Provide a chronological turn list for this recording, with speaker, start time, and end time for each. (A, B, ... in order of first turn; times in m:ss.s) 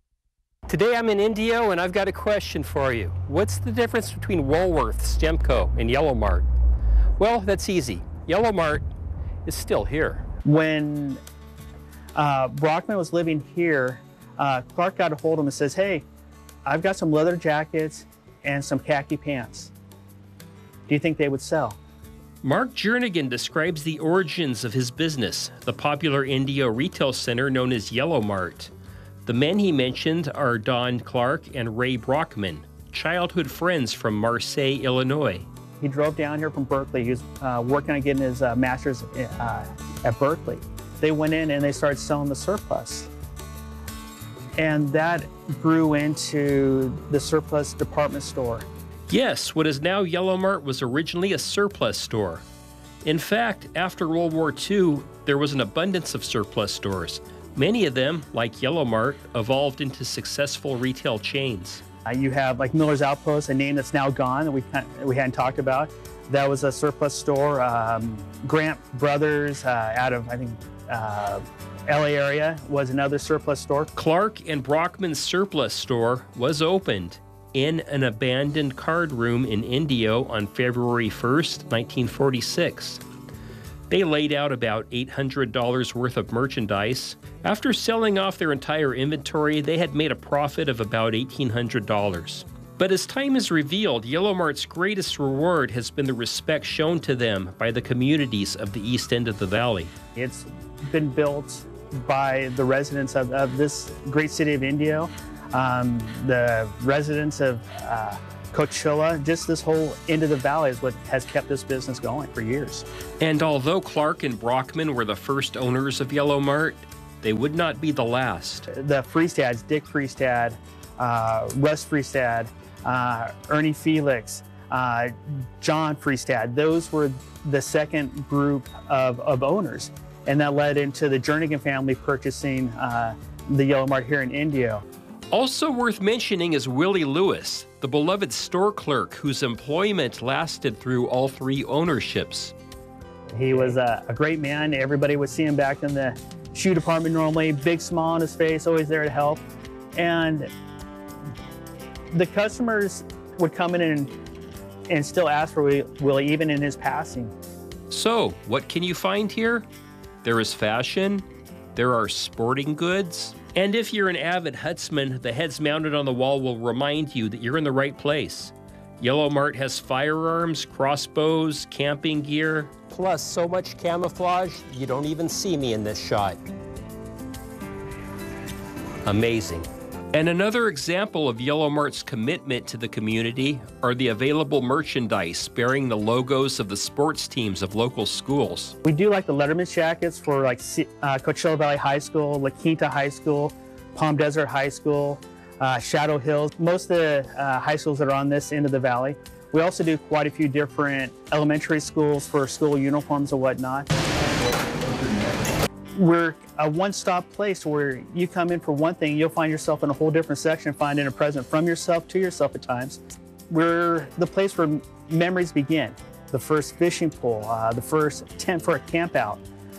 0:00.7-0:06.5 A
0:07.2-0:08.8 A
0:09.4-0:10.2 A
0:10.4-0:11.2 B
0:12.1-0:16.0 B
0:16.6-0:19.7 B
0:20.9-0:21.8 B
0:22.4-0:28.7 A
0:29.2-0:35.5 A
0:35.8-0:43.1 B
0:44.6-0:48.7 B
0:49.1-0:52.4 A
0:53.0-1:01.8 A
1:02.1-1:13.9 B
1:13.9-1:23.0 A
1:23.9-1:39.9 A
1:40.1-1:52.8 B
1:53.2-1:58.6 A
1:58.7-2:14.8 B
2:15.3-2:22.5 A
2:23.3-2:29.4 B
2:29.9-2:30.5 B
2:32.1-2:34.1 B
2:34.9-2:37.3 B
2:37.9-2:39.6 A
2:40.2-2:56.4 A
2:59.0-3:08.7 A
3:08.8-3:23.9 B
3:25.9-3:39.4 B